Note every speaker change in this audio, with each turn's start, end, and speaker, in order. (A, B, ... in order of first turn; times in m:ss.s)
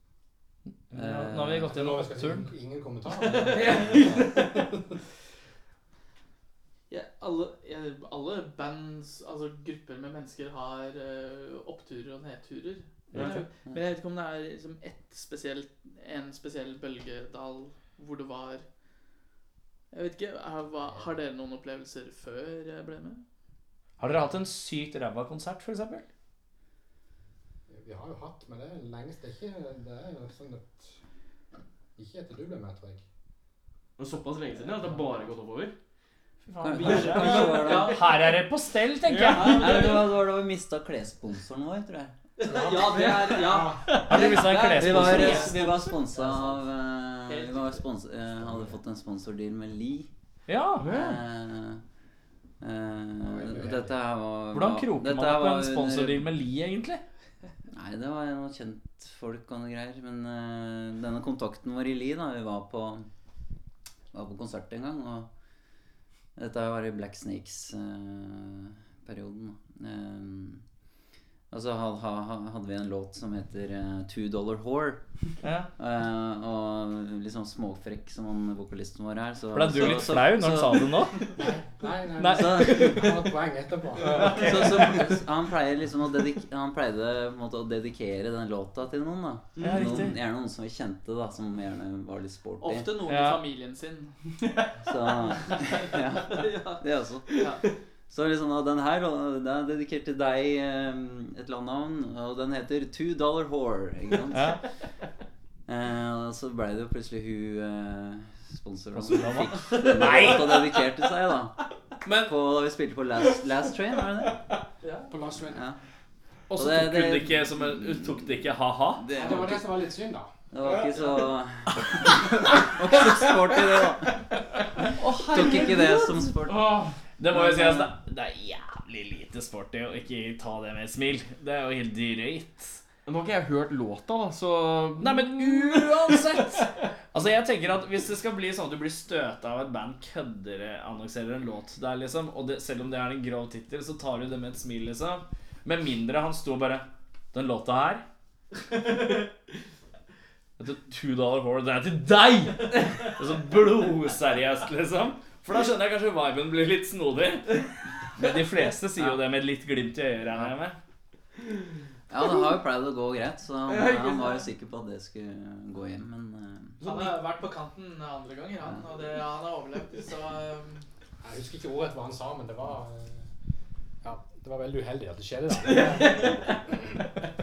0:00.9-0:02.5 A
0:00.9-0:01.7 B
0:01.6-0:04.8 C
0:03.2-0:04.7 D
0:06.9-0:18.7 D
0:13.1-0:13.4 E
0:19.9-0:23.2 D
0:20.8-0:21.1 C
0:24.0-0:26.1 A
0:27.7-0:31.0 C
0:32.0-0:33.0 C
0:34.0-0:35.8 E
0:36.4-0:39.8 A
0:36.6-0:38.0 B
0:37.1-0:38.4 D
0:39.1-0:39.8 E
0:39.2-0:40.1 D
0:39.4-0:42.1 B
0:42.4-0:46.0 D
0:42.4-0:44.2 C
0:42.9-0:43.3 E
0:44.1-0:45.5 A
0:44.8-0:50.1 B
0:45.9-0:46.6 C
0:47.3-0:47.8 D
0:48.4-0:48.8 C
0:50.5-0:50.9 A
0:50.8-0:51.2 E
0:50.8-0:51.8 B
0:52.6-0:56.3 B
0:53.2-0:54.0 C
0:54.5-0:57.0 A
0:57.7-1:03.1 B
1:04.1-1:05.3 B
1:06.4-1:10.6 B
1:11.5-1:15.0 B
1:15.4-1:15.7 A
1:15.8-1:20.9 B
1:19.5-1:21.3 A
1:21.4-1:25.0 C
1:22.2-1:23.1 A
1:22.4-1:23.0 B
1:24.0-1:24.9 E
1:24.4-1:32.9 B
1:29.6-1:30.0 E
1:29.6-1:30.2 A
1:32.6-1:34.2 D
1:33.1-1:33.4 A
1:34.8-1:37.5 B
1:34.9-1:37.7 D
1:38.1-1:44.6 B
1:44.3-1:44.6 A
1:45.7-1:51.6 B
1:49.0-1:50.7 A
1:52.2-1:54.4 B
1:54.8-1:55.1 D
1:55.1-1:55.6 C
1:55.5-1:55.8 B
1:56.5-1:59.1 A
1:56.6-1:58.4 B
1:59.0-1:59.8 B
1:59.1-2:00.3 C
2:00.5-2:04.3 B
2:04.9-2:06.3 D
2:05.0-2:06.8 B
2:07.2-2:12.8 A
2:07.3-2:07.9 B
2:13.1-2:16.8 E
2:15.0-2:28.0 A
2:30.6-2:40.8 A
2:42.1-2:46.8 B
2:43.7-2:44.2 E
2:46.8-2:47.1 E
2:46.8-2:50.8 D
2:51.2-2:53.3 C
2:54.0-2:56.9 C
2:55.6-2:56.6 E